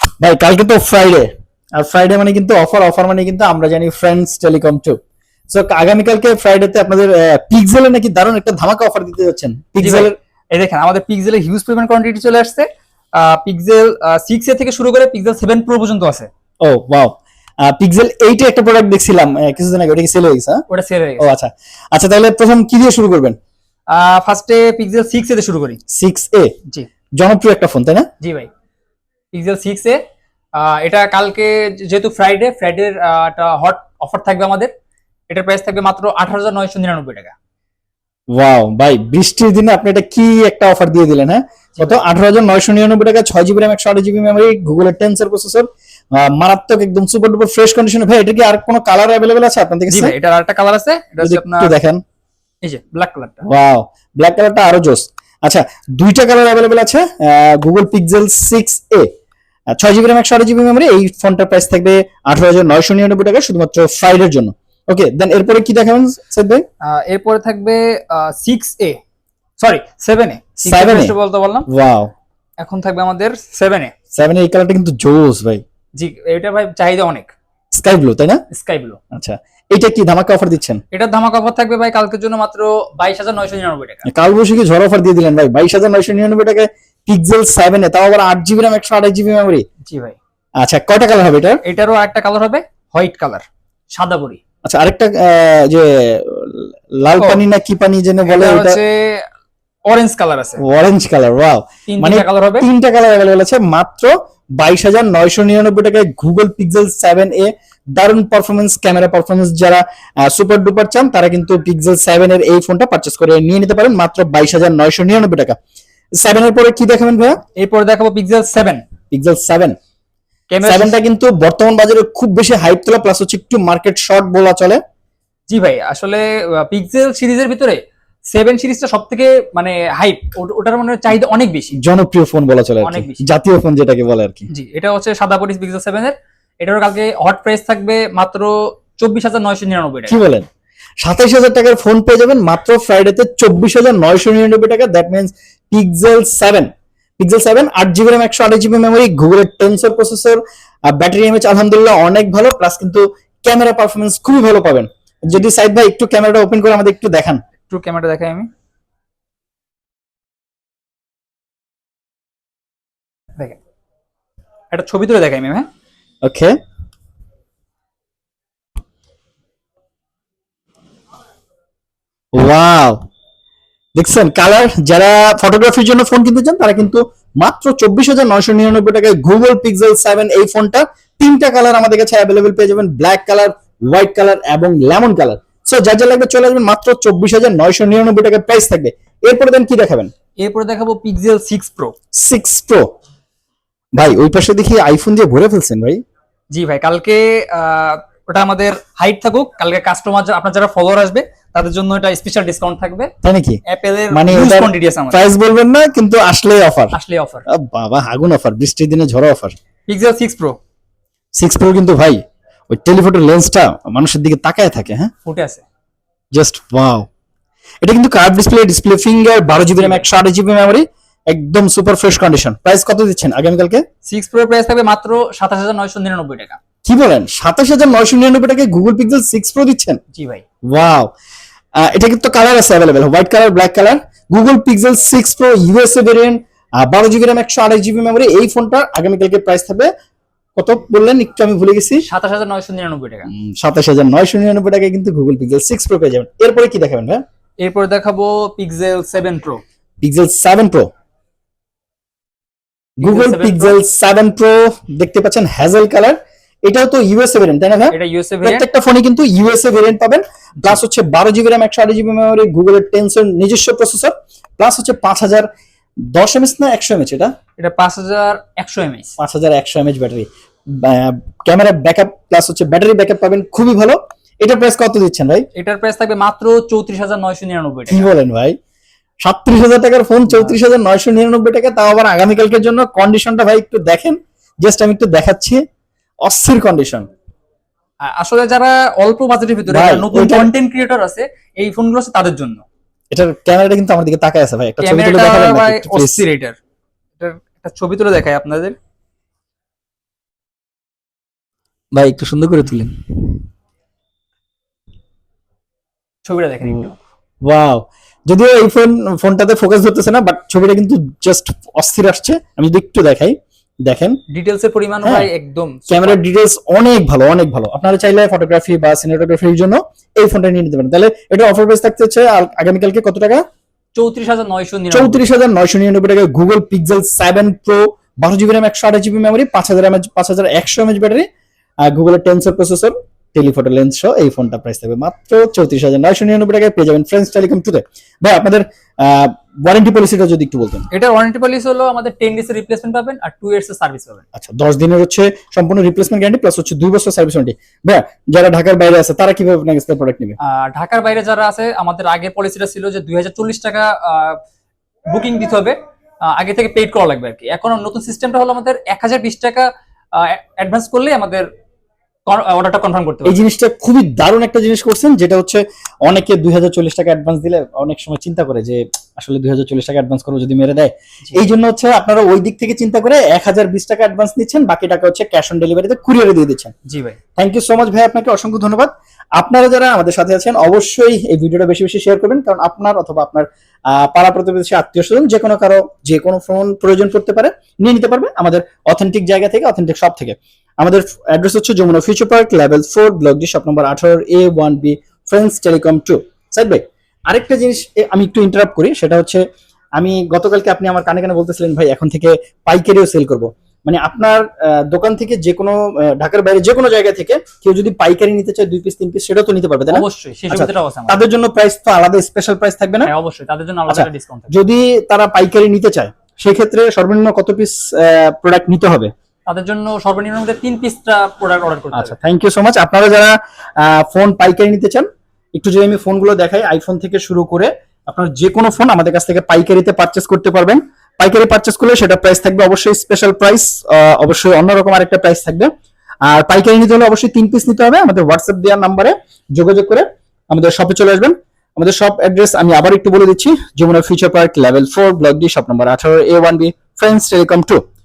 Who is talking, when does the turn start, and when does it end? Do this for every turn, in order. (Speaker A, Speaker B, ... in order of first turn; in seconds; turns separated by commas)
Speaker A: 0.2-5.0, Speaker A: 5.5-10.1, Speaker B: 9.8-16.3, Speaker A: 16.6-20.6, Speaker B: 20.7-21.2, Speaker A: 21.2-23.4, Speaker B: 23.9-25.8, Speaker A: 25.9-26.5, Speaker A: 27.2-28.1, Speaker B: 28.2-28.5, Speaker B: 29.3-30.0, Speaker B: 30.6-34.7, Speaker B: 35.3-37.3, Speaker A: 38.3-50.1, Speaker B: 49.9-51.7, Speaker A: 51.2-52.0, Speaker B: 52.6-53.5, Speaker A: 53.5-59.1, Speaker A: 59.7-66.6, Speaker B: 66.8-69.0, Speaker B: 69.6-71.7, Speaker A: 70.6-71.1, Speaker A: 71.7-72.1, Speaker B: 72.6-73.9, Speaker A: 74.1-75.6, Speaker B: 76.0-77.3, Speaker A: 77.7-78.4, Speaker B: 78.5-79.0, Speaker A: 79.1-80.8, Speaker B: 80.9-84.0, Speaker A: 84.0-89.6, Speaker B: 89.8-90.2, Speaker A: 90.6-91.6, Speaker B: 91.6-94.4, Speaker A: 94.6-98.8, Speaker B: 97.2-97.4, Speaker B: 98.2-99.3, Speaker B: 99.8-100.6, Speaker A: 100.6-115.5, Speaker B: 101.9-102.7, Speaker A: 116.2-117.4, Speaker B: 117.5-118.8, Speaker A: 119.1-119.7, Speaker B: 120.5-121.0, Speaker A: 120.6-124.8, Speaker B: 125.5-127.8, Speaker B: 128.3-131.8, Speaker A: 131.8-134.5, Speaker B: 132.8-133.2, Speaker B: 134.5-140.2, Speaker A: 140.1-140.5, Speaker A: 141.0-157.4, Speaker B: 157.7-158.5, Speaker B: 164.7-165.7, Speaker A: 166.2-166.5, Speaker A: 172.3-173.0, Speaker A: 173.9-190.1, Speaker B: 190.4-191.9, Speaker A: 192.2-192.8, Speaker A: 193.9-196.0, Speaker B: 196.5-203.1, Speaker A: 203.2-203.6, Speaker B: 203.7-205.3, Speaker A: 204.1-206.9, Speaker B: 206.9-207.4, Speaker A: 207.5-209.5, Speaker B: 209.9-210.6, Speaker A: 211.4-215.1, Speaker B: 215.2-215.6, Speaker A: 216.3-217.1, Speaker A: 217.8-223.8, Speaker B: 219.5-220.1, Speaker B: 224.1-226.6, Speaker A: 226.8-230.0, Speaker B: 230.1-230.4, Speaker A: 230.7-231.1, Speaker A: 231.8-239.9, Speaker A: 240.6-242.1, Speaker B: 242.0-243.3, Speaker A: 243.3-247.2, Speaker B: 247.6-249.6, Speaker A: 250.0-250.9, Speaker A: 253.0-265.5, Speaker B: 253.0-253.8, Speaker B: 257.9-258.6, Speaker A: 266.1-267.3, Speaker B: 267.6-269.1, Speaker A: 269.2-275.4, Speaker B: 275.5-278.1, Speaker A: 277.9-278.5, Speaker A: 279.2-285.6, Speaker A: 286.2-287.1, Speaker B: 288.0-292.6, Speaker A: 289.7-290.5, Speaker A: 293.1-296.2, Speaker B: 294.8-296.6, Speaker B: 297.2-298.8, Speaker A: 301.9-303.4, Speaker B: 306.2-306.9, Speaker A: 307.4-314.2, Speaker B: 314.3-316.2, Speaker A: 315.9-323.4, Speaker B: 323.9-325.2, Speaker A: 324.9-331.2, Speaker A: 331.9-340.9, Speaker B: 340.9-344.2, Speaker A: 344.3-350.4, Speaker B: 350.4-354.4, Speaker B: 355.1-355.8, Speaker B: 356.3-361.5, Speaker B: 362.2-363.4, Speaker A: 363.2-376.7, Speaker B: 376.9-377.2, Speaker A: 377.4-399.4, Speaker A: 400.0-413.1, Speaker B: 409.9-411.2, Speaker B: 413.0-414.5, Speaker A: 413.9-419.1, Speaker B: 419.5-422.1, Speaker A: 421.9-435.7, Speaker A: 436.3-447.8